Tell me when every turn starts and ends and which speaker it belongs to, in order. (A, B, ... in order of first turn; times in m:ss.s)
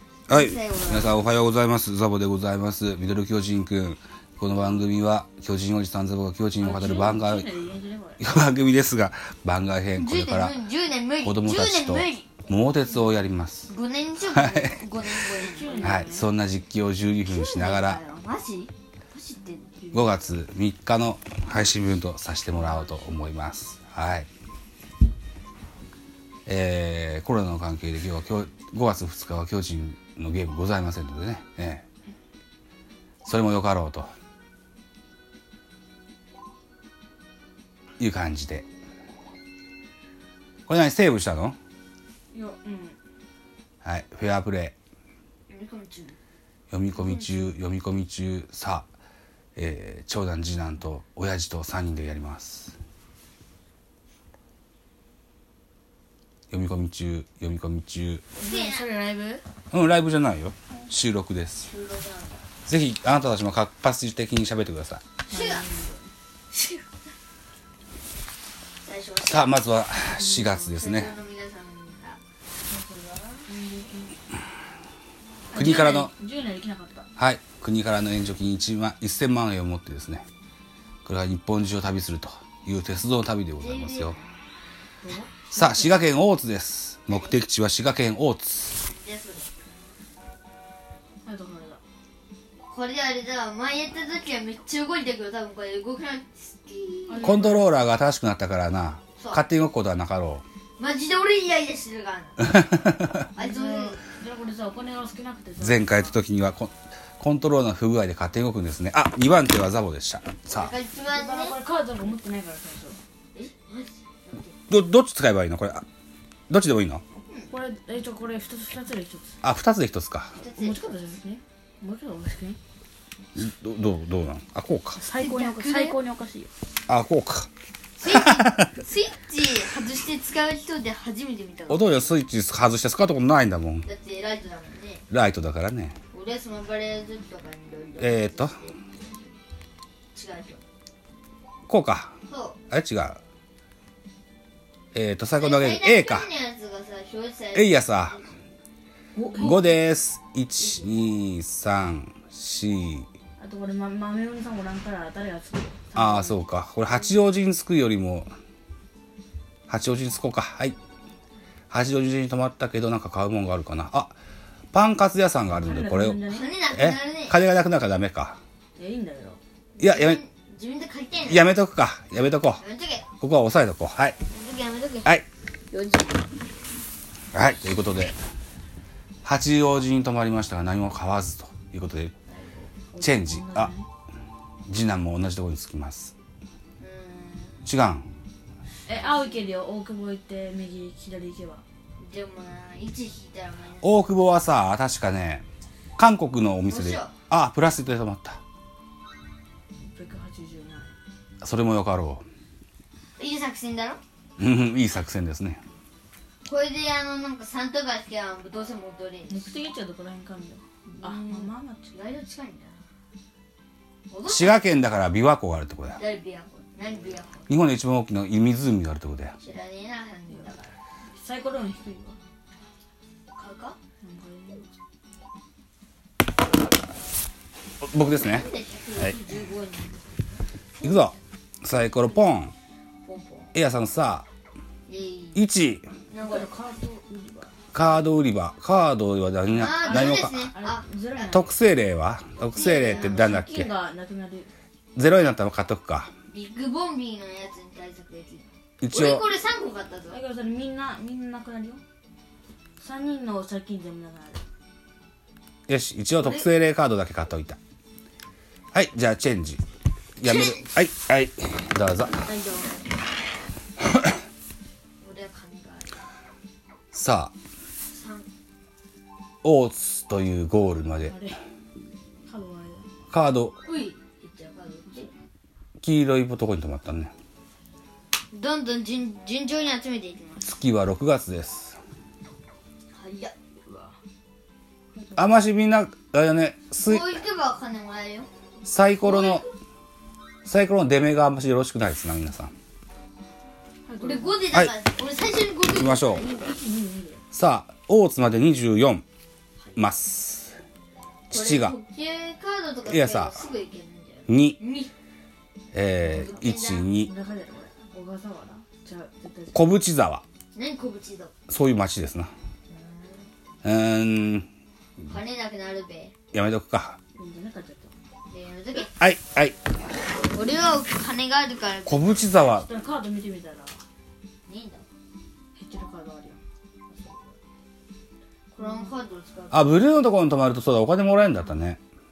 0:00.3-0:01.2 A
0:00.3-0:07.5 B
0:06.6-0:08.2 C
0:08.2-0:10.6 B
0:10.0-0:12.4 A
0:11.2-0:13.7 B
0:13.7-0:16.0 A
0:14.3-0:14.8 B
0:15.4-0:16.3 C
0:15.8-0:18.0 B
0:17.2-0:19.8 A
0:19.8-0:20.2 C
0:19.9-0:24.3 B
0:22.5-0:23.2 C
0:26.4-0:31.8 B
0:33.2-0:34.1 B
0:38.0-0:38.6 B
0:40.7-0:41.6 B
0:42.3-0:43.0 C
0:43.8-0:44.7 B
0:45.5-0:46.2 A
0:46.7-0:48.9 B
0:46.9-0:47.5 C
0:49.6-0:52.8 B
0:56.5-0:58.2 B
0:58.4-0:59.0 A
0:58.4-0:59.4 C
0:59.7-1:01.7 B
1:01.6-1:02.4 A
1:02.6-1:05.0 B
1:05.3-1:05.7 A
1:05.3-1:06.1 C
1:06.5-1:06.9 A
1:08.8-1:09.6 A
1:09.2-1:11.2 B
1:10.0-1:10.7 C
1:10.6-1:13.5 A
1:13.4-1:14.2 C
1:15.5-1:17.1 C
1:15.5-1:16.1 B
1:17.2-1:20.2 B
1:21.0-1:24.2 B
1:23.6-1:24.4 A
1:25.0-1:26.0 C
1:25.5-1:28.7 B
1:27.1-1:27.4 A
1:28.7-1:29.5 A
1:31.2-1:31.8 C
1:32.7-1:37.4 A
1:37.1-1:37.7 C
1:37.2-1:40.4 B
1:39.2-1:39.4 A
1:40.8-1:42.7 A
1:42.6-1:43.2 B
1:43.3-1:44.0 A
1:43.4-1:46.1 C
1:45.6-1:50.7 B
1:50.5-1:51.6 A
1:51.1-1:53.0 C
1:53.3-1:54.6 A
1:54.7-1:55.8 B
1:56.5-1:57.0 B
1:57.5-1:59.4 C
1:59.4-2:00.3 B
2:00.4-2:01.0 A
2:00.6-2:02.6 C
2:03.3-2:05.0 B
2:05.0-2:06.5 C
2:05.1-2:06.0 A
2:06.9-2:07.5 B
2:08.0-2:12.1 A
2:08.1-2:08.7 B
2:11.7-2:13.9 B
2:13.8-2:15.0 A
2:15.1-2:16.0 B
2:16.1-2:19.0 A
2:18.0-2:18.6 B
2:20.1-2:20.6 A
2:21.7-2:22.1 B
2:22.3-2:22.6 A
2:22.7-2:23.2 B
2:24.9-2:26.3 B
2:25.4-2:28.3 A
2:27.5-2:28.2 B
2:29.1-2:29.7 C
2:29.4-2:33.1 B
2:30.6-2:30.9 A
2:33.4-2:36.4 C
2:35.9-2:38.3 B
2:39.7-2:40.8 B
2:41.7-2:44.1 B
2:44.7-2:48.4 B
2:45.6-2:46.5 C
2:46.3-2:47.4 A
2:48.8-2:49.4 C
2:49.8-2:51.5 A
2:49.8-2:50.2 B
2:51.3-2:52.6 B
2:52.6-2:53.1 A
2:53.2-2:54.2 B
2:54.3-2:55.1 A
2:55.7-2:56.3 A
2:57.3-2:58.2 B
2:59.2-3:02.1 B
3:02.3-3:02.7 A
3:02.9-3:03.9 C
3:03.0-3:03.7 B
3:04.7-3:06.1 B
3:06.8-3:07.7 A
3:07.6-3:08.1 B
3:08.9-3:09.5 A
3:08.9-3:11.6 C
3:12.0-3:14.0 A
3:13.8-3:15.4 B
3:16.0-3:18.4 B
3:16.7-3:17.2 A
3:19.8-3:20.9 C
3:21.4-3:22.2 B
3:23.2-3:24.0 A
3:24.4-3:25.6 B
3:26.4-3:29.6 A
3:29.3-3:31.9 C
3:30.9-3:32.8 A
3:34.1-3:34.6 A
3:34.3-3:36.0 B
3:35.9-3:37.5 A
3:37.5-3:39.4 B
3:39.4-3:40.7 A
3:41.1-3:42.2 C
3:43.3-3:43.8 A
3:44.0-3:44.7 C
3:47.8-3:48.4 B
3:48.1-3:51.0 A
3:50.8-3:52.5 B
3:53.0-3:53.5 A
3:53.5-3:54.2 B
3:54.9-3:55.4 A
3:55.3-3:55.9 B
3:56.1-3:56.5 A
3:56.2-3:57.5 C
3:57.7-4:00.5 B
3:59.5-4:01.4 A
3:59.6-4:01.5 C
4:01.3-4:03.7 B
4:02.4-4:03.4 A
4:02.8-4:04.5 C
4:05.0-4:06.1 B
4:06.3-4:10.2 A
4:08.8-4:09.2 B
4:10.1-4:11.8 C
4:12.8-4:14.4 C
4:15.7-4:17.6 B
4:16.2-4:16.4 A
4:18.7-4:19.6 B
4:20.2-4:22.2 B
4:20.2-4:20.6 A
4:22.2-4:22.8 A
4:25.0-4:25.9 A
4:26.9-4:27.3 B
4:27.9-4:28.3 A
4:29.4-4:31.2 B
4:31.0-4:31.4 C
4:32.2-4:32.9 C
4:33.1-4:33.6 B
4:33.6-4:35.1 A
4:34.8-4:35.1 C
4:35.8-4:37.1 B
4:38.3-4:40.5 A
4:40.4-4:41.8 B
4:42.9-4:43.3 A
4:43.6-4:44.0 C
4:44.9-4:45.3 C
4:45.2-4:47.2 B
4:46.8-4:48.3 A
4:48.6-4:49.4 B
4:49.0-4:49.5 A
4:50.4-4:52.5 B
4:53.8-4:54.4 C
4:54.0-4:56.6 A
4:55.7-4:56.2 B
4:56.5-4:57.2 C
4:57.3-4:59.0 B
4:59.8-5:00.6 B
5:01.3-5:01.8 B
5:01.3-5:04.9 A
5:02.8-5:03.4 B
5:04.3-5:04.6 B
5:05.7-5:07.1 B
5:06.0-5:06.9 A
5:07.0-5:09.7 C
5:09.5-5:10.2 B
5:10.5-5:11.3 A
5:11.5-5:12.3 B
5:12.7-5:13.3 A
5:13.6-5:14.5 B
5:15.0-5:16.1 A
5:16.3-5:17.0 B
5:17.1-5:17.9 C
5:18.3-5:18.9 A
5:18.7-5:19.6 B
5:20.3-5:22.2 A
5:21.8-5:22.7 B
5:22.4-5:23.8 C
5:24.5-5:24.9 A
5:25.5-5:26.4 C
5:26.9-5:27.4 A
5:28.5-5:29.7 A
5:28.6-5:28.9 C
5:29.5-5:31.8 B